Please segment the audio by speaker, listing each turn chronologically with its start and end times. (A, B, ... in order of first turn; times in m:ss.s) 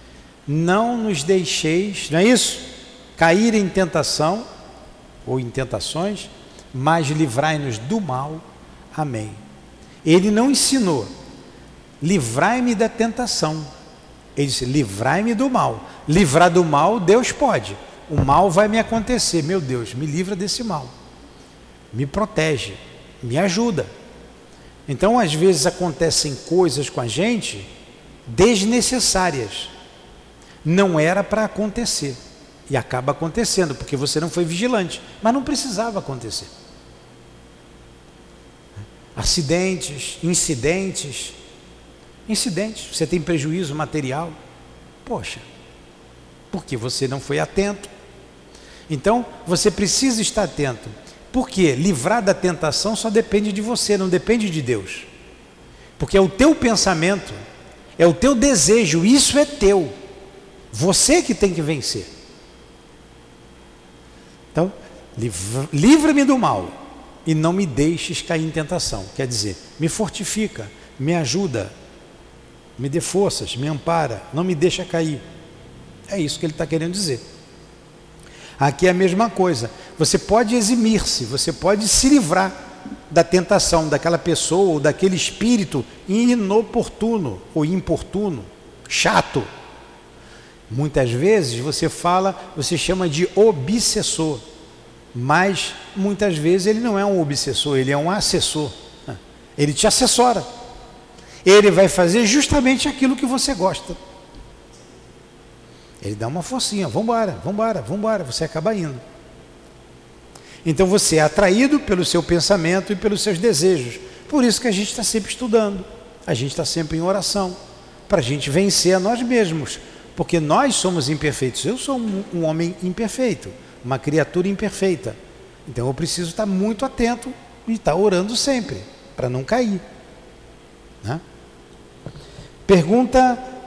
0:00.4-0:04.4 A
0:05.2-0:09.4 A
0:10.0-0:11.1 A
0:12.0-0:13.7 A
0:14.4-0:20.9 A
0:21.9-0:23.9 A
0:24.9-0:27.7 A
0:28.2-0:29.7 A
0:30.6-0:36.5 A
0:39.1-0:41.4 A
0:42.3-0:44.4 A
0:45.0-0:45.4 A
0:46.5-0:47.9 A
0:48.9-0:55.1 A
0:56.0-0:57.4 A
0:58.0-0:59.9 A
1:00.7-1:02.1 A
1:04.5-1:06.7 A
1:07.2-1:11.7 A
1:12.8-1:15.2 A
1:16.1-1:17.2 A
1:18.6-1:22.5 A
1:23.1-1:29.5 A
1:30.7-1:34.4 A
1:35.1-1:40.5 A
1:41.4-1:44.0 A
1:46.0-1:49.0 A
1:50.6-2:09.8 A
2:12.7-2:13.5 A